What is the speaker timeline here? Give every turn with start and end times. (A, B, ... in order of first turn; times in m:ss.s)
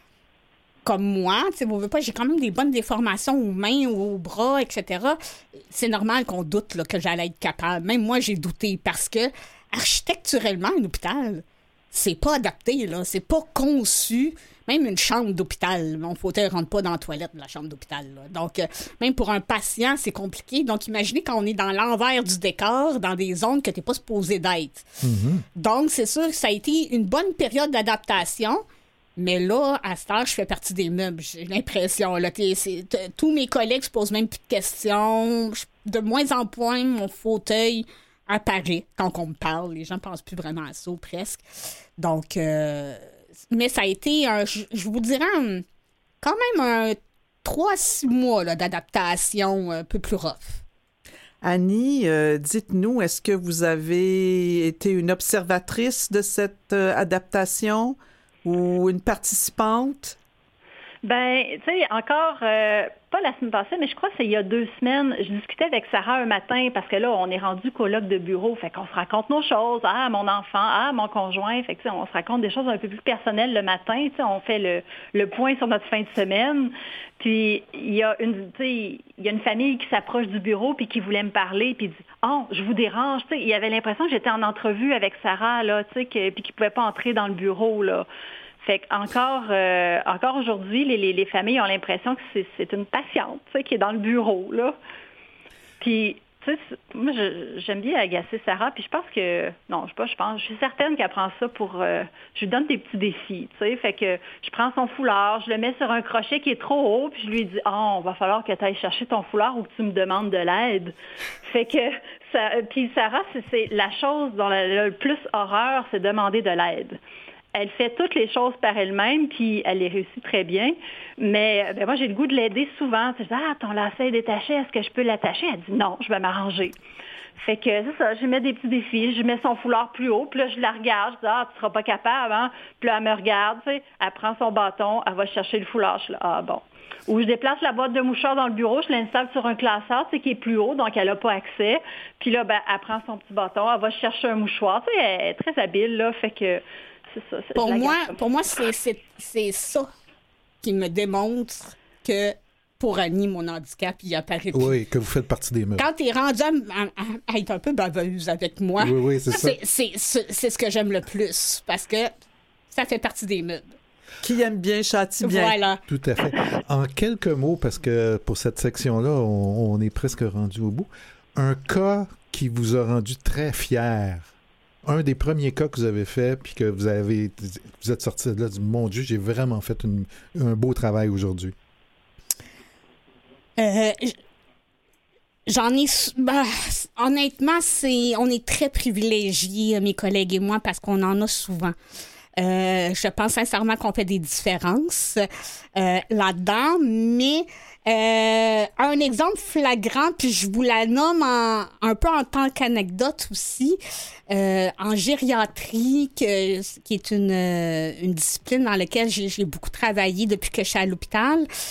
0:00.8-0:25.0 A
0:25.0-0:25.4 B
0:25.6-0:28.6 A
0:29.2-0:41.4 A
0:42.0-0:45.6 A
0:46.2-0:50.6 A
0:51.4-1:00.2 C
1:01.0-1:28.1 D
1:28.6-1:34.8 D
1:35.8-1:57.0 D
1:57.5-2:06.8 D
2:07.4-2:28.2 D
2:27.6-2:29.9 A
2:30.6-2:34.8 A
2:34.5-2:35.9 B
2:35.8-2:42.1 A
2:38.8-2:39.6 B
2:42.7-2:43.7 A
2:44.2-2:45.6 C
2:45.2-2:45.8 A
2:45.9-2:54.3 B
2:54.8-3:01.6 B
3:03.6-3:04.2 A
3:05.5-3:11.8 A
3:12.4-3:15.2 A
3:15.8-3:23.8 A
3:24.3-3:31.5 A